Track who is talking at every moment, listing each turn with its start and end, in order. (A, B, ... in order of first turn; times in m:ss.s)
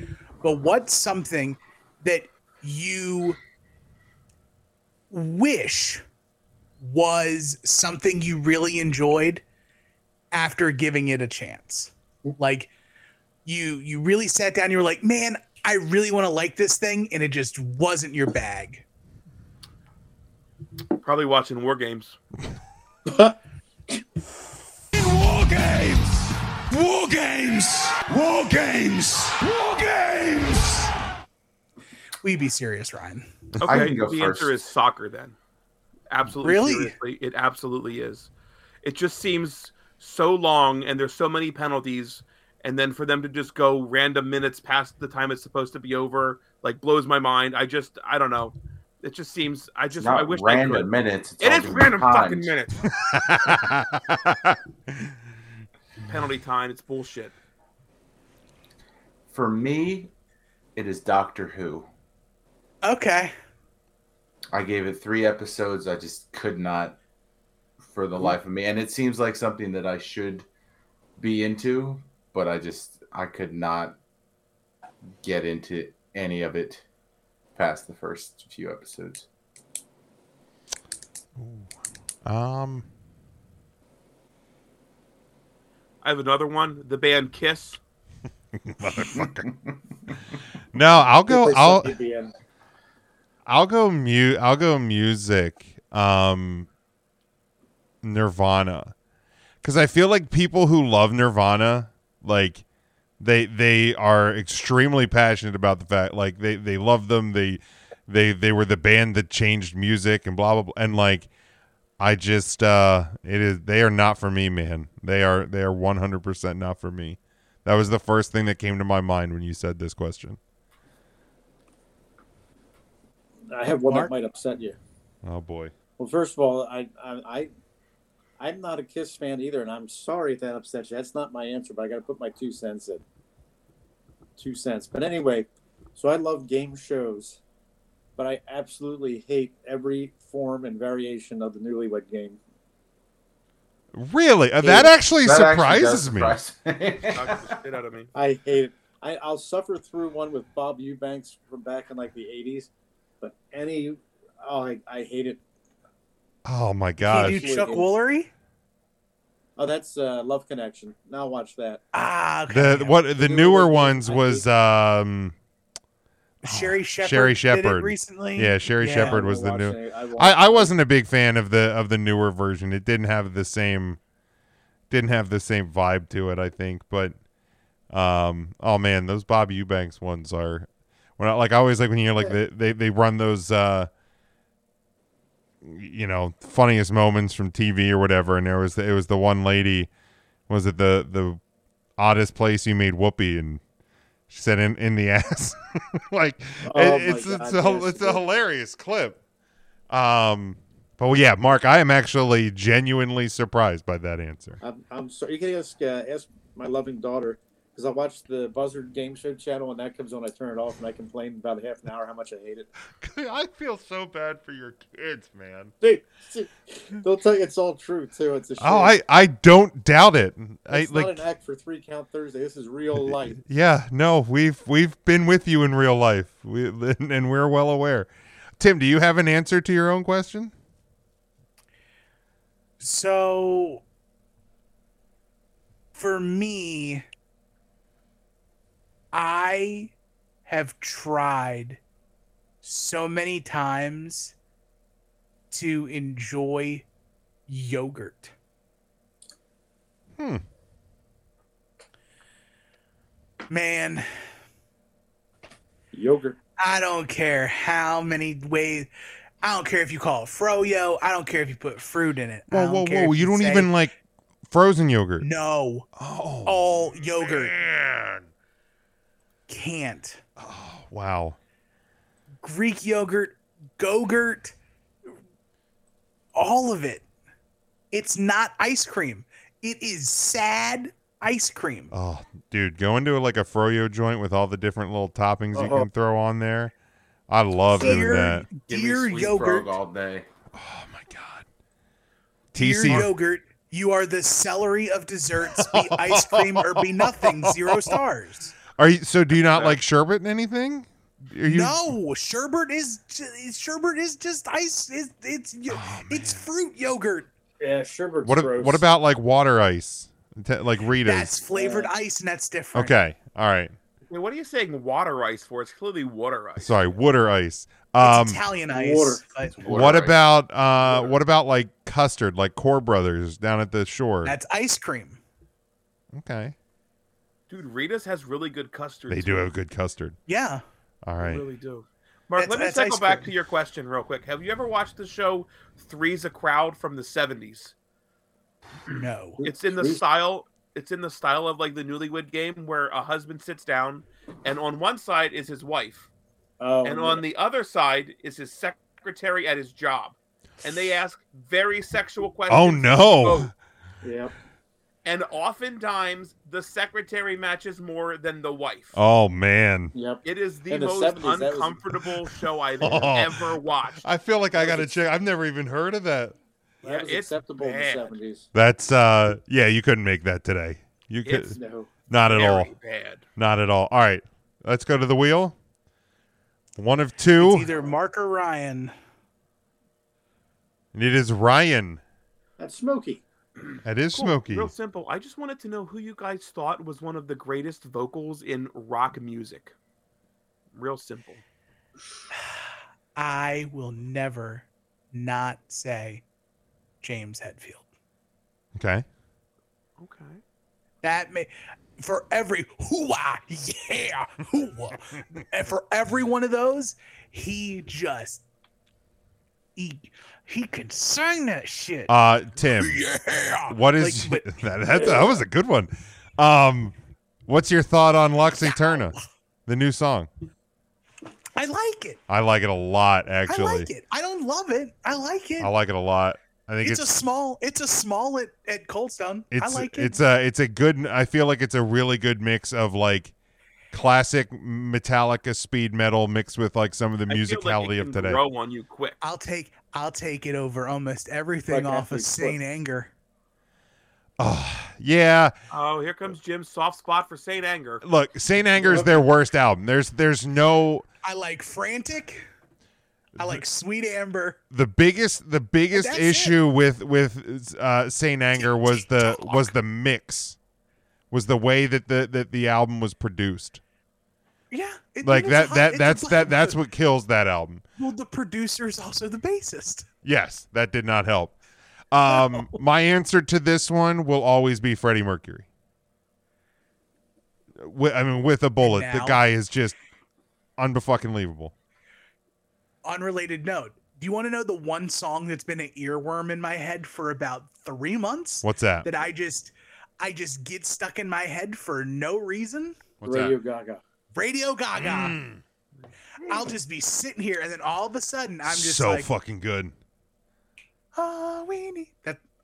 0:00.4-0:03.4 A
0:05.1-0:06.0 A
0:06.8-0:09.4 A
0:10.3-0:12.7 A
0:13.4-0:18.8 A
0:21.0-0:22.2 B
0:23.1-0:23.4 C
0:24.9-0:30.9 D
0:32.2-0:33.3 A
0:33.6-0:33.8 E
0:33.6-0:35.4 B
0:33.6-0:34.6 F
0:36.1-0:38.3 B
0:36.4-0:37.0 A
0:38.8-0:52.9 B
0:50.0-0:52.5 F
0:53.0-0:55.1 E
0:56.1-0:57.4 B
0:59.3-1:00.1 F
1:00.8-1:01.9 F
1:02.8-1:03.3 A
1:04.5-1:07.0 F
1:07.9-1:10.5 F
1:11.2-1:14.0 F
1:15.2-1:16.8 F
1:17.6-1:19.3 F
1:21.4-1:21.7 E
1:22.2-1:22.9 E
1:26.0-1:27.8 B
1:28.6-1:29.5 E
1:30.7-1:32.0 E
1:31.3-1:32.3 C
1:33.5-1:36.7 E
1:38.0-1:38.9 E
1:39.6-1:42.6 E
1:43.2-1:51.3 E
1:52.0-2:00.4 E
2:03.5-2:04.8 C
2:05.2-2:05.7 E
2:06.0-2:07.5 C
2:08.4-2:13.0 C
2:14.4-2:17.4 C
2:18.2-2:22.4 C
2:23.9-2:26.4 E
2:24.6-2:24.9 C
2:25.2-2:27.6 F
2:27.1-2:28.1 B
2:28.2-2:32.7 C
2:33.2-2:35.4 C
2:36.4-2:37.4 E
2:37.1-2:38.3 A
2:37.1-2:37.9 C
2:39.6-2:41.8 C
2:41.9-2:43.0 A
2:42.5-2:45.4 E
2:43.2-2:44.5 C
2:46.4-2:49.2 A
2:46.4-2:54.0 E
2:48.9-2:50.7 C
2:54.9-2:57.2 E
2:57.9-3:03.9 E
3:05.6-3:09.9 E
3:10.5-3:11.4 E
3:12.0-3:13.6 E
3:14.3-3:19.2 E
3:16.6-3:18.2 C
3:19.9-3:24.6 E
3:24.6-3:32.7 C
3:33.0-3:35.7 E
3:35.8-3:39.0 C
3:38.6-3:41.2 E
3:40.7-3:43.4 C
3:43.4-3:50.5 E
3:52.8-3:53.8 A
3:55.9-3:57.0 A
3:59.1-3:59.9 A
4:00.5-4:01.8 A
4:02.6-4:04.3 A
4:05.5-4:06.9 A
4:07.5-4:08.3 A
4:10.2-4:10.4 E
4:13.5-4:14.1 A
4:15.9-4:16.4 C
4:16.6-4:18.9 A
4:19.4-4:23.7 A
4:22.5-4:23.9 E
4:24.5-4:25.3 E
4:25.2-4:25.9 A
4:26.0-4:28.3 E
4:26.5-4:27.6 A
4:29.5-4:30.2 A
4:30.4-4:31.4 E
4:32.4-4:34.6 A
4:36.4-4:37.0 A
4:37.9-4:41.9 A
4:41.9-4:46.7 E
4:45.5-4:45.9 C
4:47.3-4:48.5 E
4:47.7-4:49.8 A
4:48.7-4:50.3 F
4:50.5-4:51.4 E
4:52.5-4:53.1 E
4:52.5-4:58.6 A
4:55.5-4:58.0 E
4:58.7-5:01.8 E
5:01.4-5:07.3 A
5:05.7-5:06.4 E
5:07.6-5:08.8 C
5:08.2-5:11.4 E
5:11.0-5:12.9 A
5:11.5-5:11.9 C
5:12.7-5:13.8 E
5:14.1-5:16.9 B
5:16.6-5:18.4 E
5:18.0-5:19.9 A
5:18.7-5:19.2 C
5:19.6-5:24.4 E
5:19.6-5:20.1 F
5:20.8-5:21.2 B
5:24.2-5:25.2 A
5:26.1-5:26.6 E
5:27.5-5:29.5 B
5:29.1-5:30.2 E
5:30.3-5:30.6 A
5:31.0-5:31.4 E
5:31.2-5:37.7 B
5:32.4-5:33.3 A
5:38.9-5:39.4 A
5:39.4-5:40.0 C
5:39.4-5:46.1 B
5:46.6-5:47.2 C
5:46.8-5:53.5 B
5:52.5-5:53.5 E
5:54.0-5:54.3 C
5:55.0-5:59.0 B
5:59.0-5:59.9 E
5:59.9-6:01.8 C
6:00.2-6:04.0 B
6:02.8-6:03.5 E
6:04.0-6:06.4 E
6:04.6-6:04.9 C
6:06.8-6:08.5 C
6:06.8-6:08.2 B
6:08.5-6:11.6 E
6:11.2-6:11.6 B
6:11.5-6:11.9 C
6:12.1-6:12.7 E
6:12.3-6:13.2 B
6:13.4-6:15.6 E
6:16.8-6:17.7 E
6:17.4-6:18.9 A
6:20.9-6:22.0 E
6:22.6-6:23.2 C
6:23.8-6:24.7 E
6:24.1-6:29.8 B
6:30.7-6:31.4 B
6:33.2-6:36.2 A
6:37.0-6:37.8 A
6:38.8-6:39.0 E
6:40.0-6:40.4 B
6:41.0-6:48.4 A
6:49.8-6:52.1 A
6:52.1-6:53.0 E
6:52.7-6:55.4 A
6:53.7-6:57.0 E
6:57.5-6:59.2 E
6:58.6-6:59.2 A
6:59.7-7:00.3 E
7:01.6-7:02.2 A
7:02.3-7:03.9 E
7:03.5-7:05.7 A
7:05.6-7:07.0 E
7:06.8-7:10.2 A
7:09.5-7:13.3 E
7:13.9-7:18.4 E
7:17.3-7:19.2 B
7:19.2-7:23.1 A
7:21.7-7:22.6 C
7:24.4-7:25.5 E
7:25.7-7:28.0 B
7:28.0-7:31.1 E
7:28.8-7:29.2 C
7:31.2-7:32.5 A
7:33.4-7:33.6 E
7:33.4-7:34.6 A
7:34.7-7:40.6 E
7:35.9-7:36.6 A
7:38.6-7:39.7 A
7:41.3-7:43.8 E
7:44.7-7:46.8 A
7:45.2-7:47.8 E
7:48.0-7:50.1 A
7:50.2-7:51.6 E
7:52.1-7:55.7 E
7:52.3-7:52.8 A
7:57.8-8:00.0 E
7:58.8-7:59.4 A
8:00.8-8:01.7 E
8:03.0-8:13.0 A
8:08.6-8:09.1 E
8:13.2-8:13.6 E
8:13.2-8:14.0 C
8:14.3-8:15.4 A
8:14.9-8:15.6 E
8:16.4-8:19.3 A
8:18.6-8:20.0 E
8:21.1-8:22.4 A